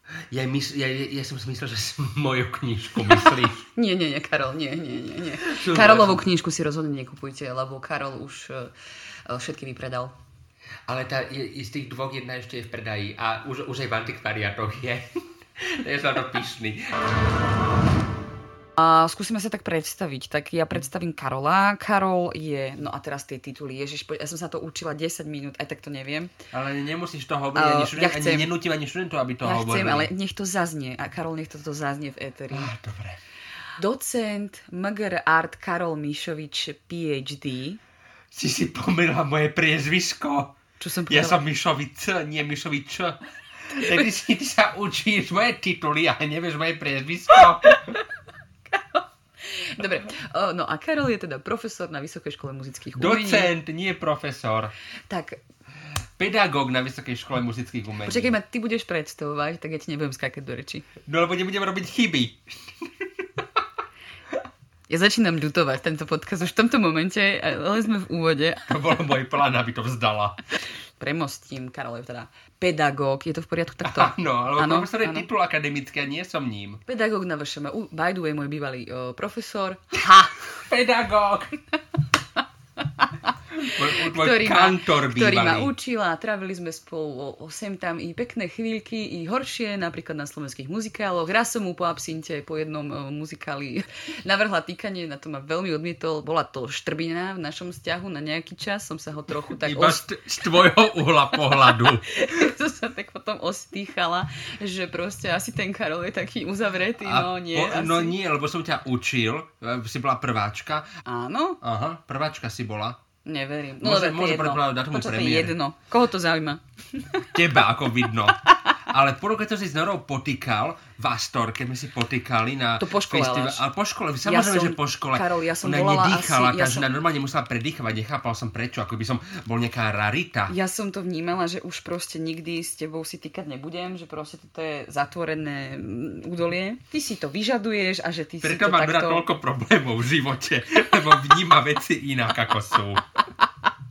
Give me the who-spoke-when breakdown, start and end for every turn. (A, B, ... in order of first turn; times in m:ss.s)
0:00.3-0:03.7 A
0:03.7-0:08.7 B
0:05.4-0:06.2 A
0:09.3-0:10.1 B
0:10.9-0:16.9 A
0:18.8-0:26.3 B
0:26.5-0:30.1 A
0:27.6-0:28.5 B
0:29.4-0:32.7 B
0:32.5-0:33.2 A
0:33.8-0:37.8 B
0:38.3-0:40.6 A
0:40.8-0:41.4 B
0:41.1-0:43.2 A
0:43.7-0:48.0 A
0:48.7-0:53.5 B
0:52.9-0:54.7 A
0:55.1-0:55.4 B
0:56.2-0:58.3 A
0:58.0-1:00.9 B
1:01.0-1:02.7 A
1:04.9-1:08.7 B
1:08.7-1:10.4 A
1:11.0-1:15.3 B
1:13.8-1:16.8 A
1:16.9-1:20.4 B
1:20.6-1:21.6 A
1:23.6-1:25.7 A
1:24.0-1:40.1 B
1:39.6-1:42.1 A
1:41.5-1:48.2 B
1:47.0-1:50.9 A
1:51.0-1:51.6 B
1:51.6-1:53.0 A
1:53.2-1:57.3 B
1:53.8-1:55.6 A
1:57.3-2:10.5 A
2:02.8-2:03.6 B
2:04.2-2:06.9 B
2:10.5-2:19.3 B
2:18.4-2:23.0 A